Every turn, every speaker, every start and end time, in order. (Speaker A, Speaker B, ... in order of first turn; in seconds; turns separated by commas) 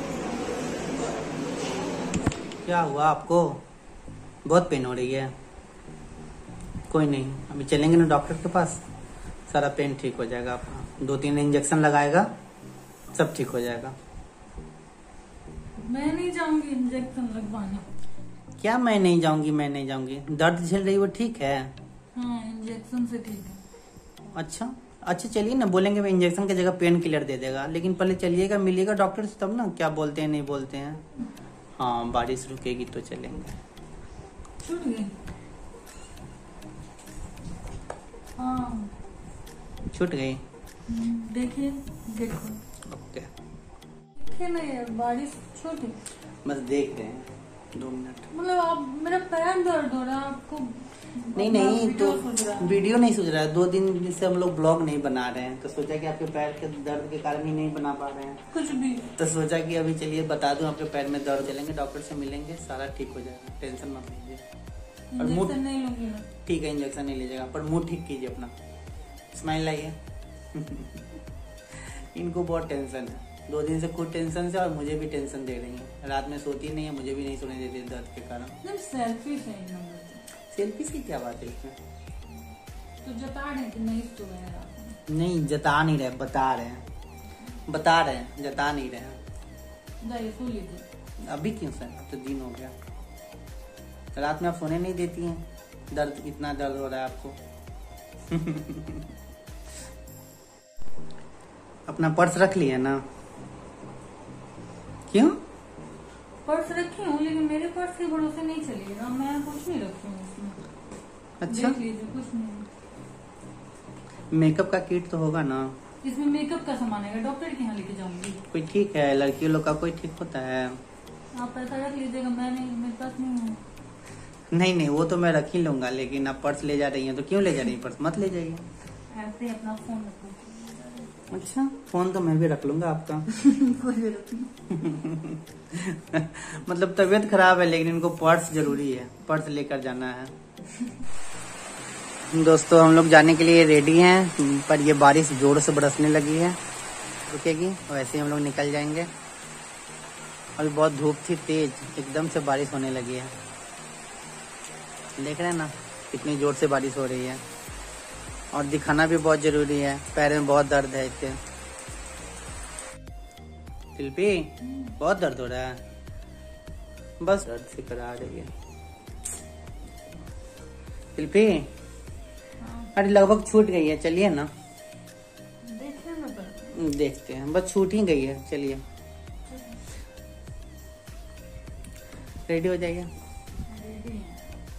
Speaker A: 2.6-3.6, Speaker A: 4.4-5.3, Speaker A: 6.9-8.8, Speaker A: 9.5-12.3, Speaker A: 13.1-13.9, Speaker B: 15.8-17.9, Speaker A: 18.6-21.7, Speaker B: 22.1-23.6, Speaker A: 24.3-31.0, Speaker A: 31.8-33.6, Speaker B: 34.6-35.1, Speaker B: 38.4-38.9, Speaker A: 39.9-40.4, Speaker B: 40.9-42.6, Speaker A: 42.9-43.3, Speaker B: 44.2-46.0, Speaker A: 46.4-48.3, Speaker B: 48.3-52.8, Speaker A: 51.4-58.4, Speaker B: 58.5-59.1, Speaker A: 59.1-64.4, Speaker B: 65.1-66.3, Speaker A: 65.2-65.5, Speaker A: 66.4-68.5, Speaker A: 69.3-70.0, Speaker A: 70.5-71.0, Speaker A: 71.8-78.6, Speaker B: 78.6-80.2, Speaker A: 80.5-81.8, Speaker B: 83.0-85.0, Speaker A: 85.1-86.8, Speaker A: 87.7-89.2, Speaker B: 90.0-90.8, Speaker A: 91.2-92.7, Speaker A: 94.1-97.4, Speaker A: 98.3-99.0, Speaker A: 101.9-103.0, Speaker A: 105.1-105.4, Speaker B: 106.4-110.6, Speaker A: 111.4-111.8, Speaker B: 111.5-112.7, Speaker A: 114.3-115.8, Speaker B: 116.0-118.4, Speaker A: 118.5-120.8, Speaker B: 121.3-123.6, Speaker A: 124.5-128.6, Speaker B: 129.1-131.1, Speaker A: 131.3-133.3, Speaker B: 133.3-134.5, Speaker A: 134.7-140.3, Speaker A: 142.3-146.6, Speaker A: 147.2-149.1, Speaker A: 150.6-153.3, Speaker A: 155.2-157.4, Speaker A: 158.5-161.4, Speaker A: 163.9-165.8, Speaker B: 164.6-164.9, Speaker A: 167.2-168.5, Speaker A: 171.1-171.7, Speaker B: 172.6-172.9, Speaker A: 172.9-174.5, Speaker B: 175.6-176.7, Speaker A: 176.7-178.8, Speaker B: 179.5-179.8, Speaker A: 182.5-183.1, Speaker B: 183.7-184.4